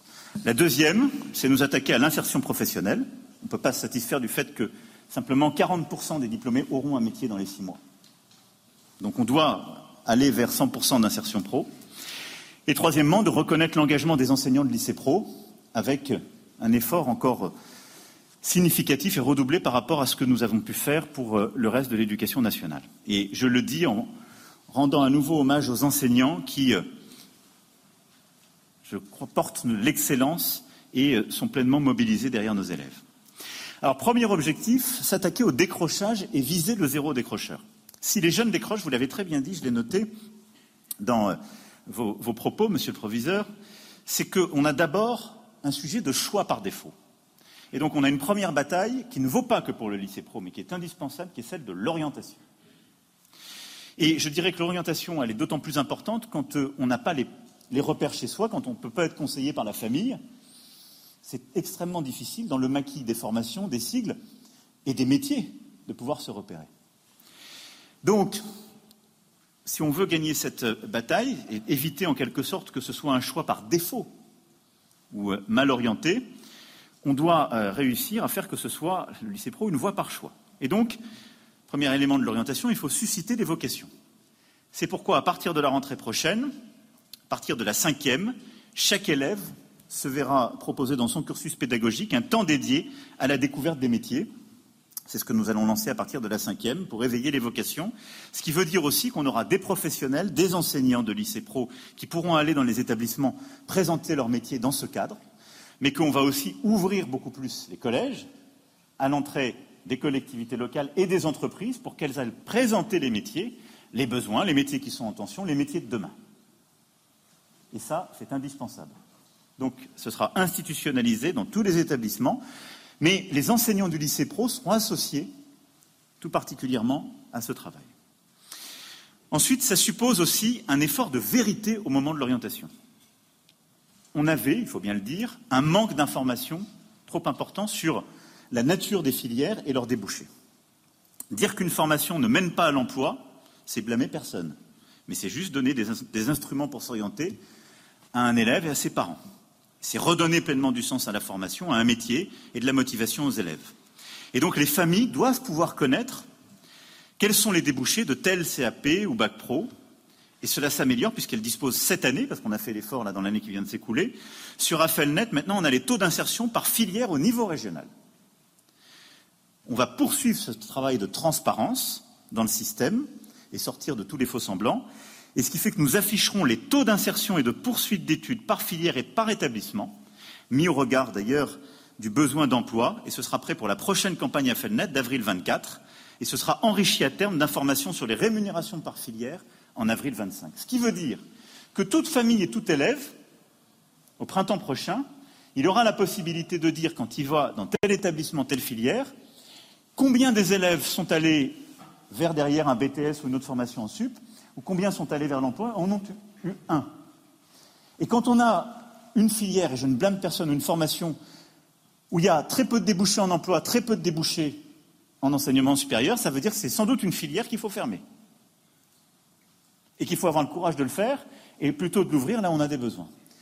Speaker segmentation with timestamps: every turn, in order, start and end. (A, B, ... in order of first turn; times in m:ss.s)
0:00.4-0:07.8 A
0:09.0-0:11.7 A
0:12.7-0:17.5 A
0:18.4-0:24.1 A
0:24.7-0:26.8 A
0:28.8-0:33.0 A
0:33.8-0:40.1 A
0:41.0-0:43.5 A
0:44.1-0:46.9 A
0:47.7-0:52.4 A
0:54.0-1:00.2 A
1:01.2-1:04.2 A
1:04.9-1:06.7 A
1:08.0-1:08.4 A
1:09.7-1:14.1 A
1:15.1-1:16.3 A
1:17.0-1:21.0 A
1:21.7-1:23.9 A
1:24.7-1:26.5 A
1:27.3-1:34.3 A
1:35.1-1:45.2 A
1:45.8-1:48.3 A
1:49.0-1:56.2 A
1:57.7-1:59.0 A
1:59.6-2:02.4 A
2:03.0-2:05.3 A
2:06.2-2:07.9 A
2:09.3-2:12.7 A
2:14.2-2:20.3 A
2:21.3-2:24.6 A
2:25.1-2:27.4 A
2:28.1-2:29.2 A
2:29.8-2:33.7 A
2:34.3-2:36.3 A
2:37.2-2:39.7 A
2:40.4-2:47.9 A
2:49.7-3:00.0 A
3:00.5-3:11.2 A
3:11.8-3:13.1 A
3:14.2-3:19.1 A
3:20.0-3:21.6 A
3:22.1-3:26.9 A
3:28.0-3:31.2 A
3:32.1-3:34.6 A
3:35.2-3:38.0 A
3:40.0-3:43.1 A